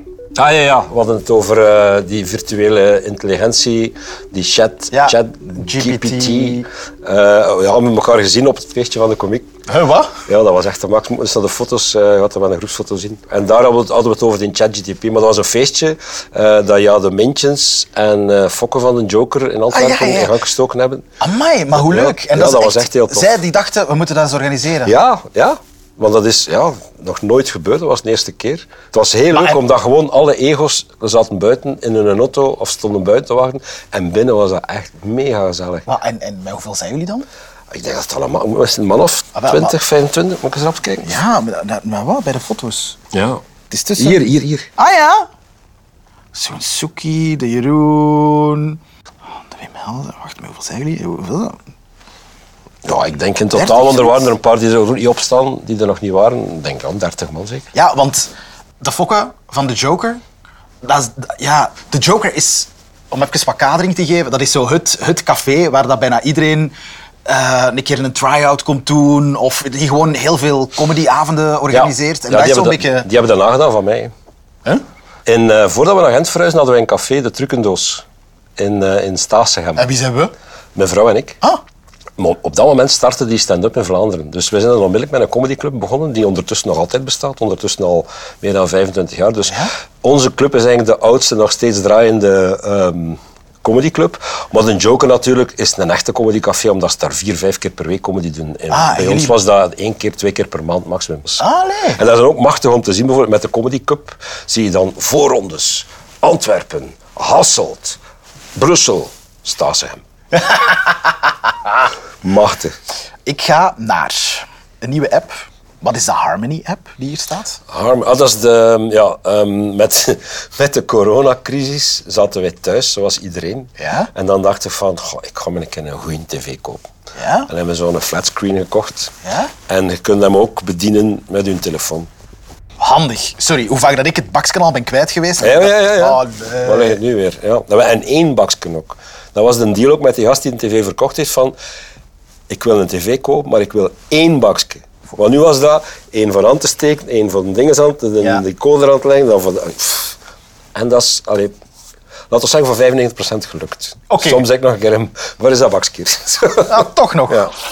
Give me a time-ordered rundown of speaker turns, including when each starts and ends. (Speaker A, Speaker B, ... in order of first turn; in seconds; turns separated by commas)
Speaker A: 0.3-9.5, Speaker B: 4.9-6.7, Speaker B: 9.7-10.2, Speaker A: 10.3-21.1, Speaker B: 19.7-20.4, Speaker B: 21.2-25.0, Speaker A: 21.7-23.4, Speaker A: 24.8-35.9, Speaker B: 29.3-29.6, Speaker B: 35.9-37.3, Speaker A: 37.7-41.2, Speaker B: 39.3-39.8, Speaker B: 41.0-43.0, Speaker A: 43.1-43.4, Speaker B: 43.7-44.2, Speaker A: 44.0-44.7, Speaker B: 44.8-45.3, Speaker B: 46.3-48.8, Speaker B: 49.3-51.6, Speaker A: 52.8-57.7, Speaker B: 53.5-54.3, Speaker B: 57.7-60.2, Speaker B: 60.8-73.1, Speaker A: 71.7-74.1, Speaker A: 75.2-78.0, Speaker A: 78.6-79.9, Speaker B: 79.8-80.3, Speaker A: 80.7-81.4, Speaker A: 82.2-108.0, Speaker B: 89.5-89.7, Speaker B: 98.7-99.4, Speaker B: 101.4-102.0, Speaker A: 108.5-110.0, Speaker B: 110.4-111.1, Speaker A: 112.2-112.8, Speaker B: 113.2-117.6, Speaker A: 117.7-126.8, Speaker B: 123.8-124.1, Speaker B: 127.2-127.5, Speaker A: 127.5-129.1, Speaker B: 129.2-129.5, Speaker A: 129.7-132.1, Speaker B: 132.8-137.0, Speaker A: 135.4-141.6, Speaker A: 142.5-150.2, Speaker A: 150.7-151.5, Speaker A: 152.3-157.5, Speaker B: 154.1-154.4, Speaker B: 156.7-157.5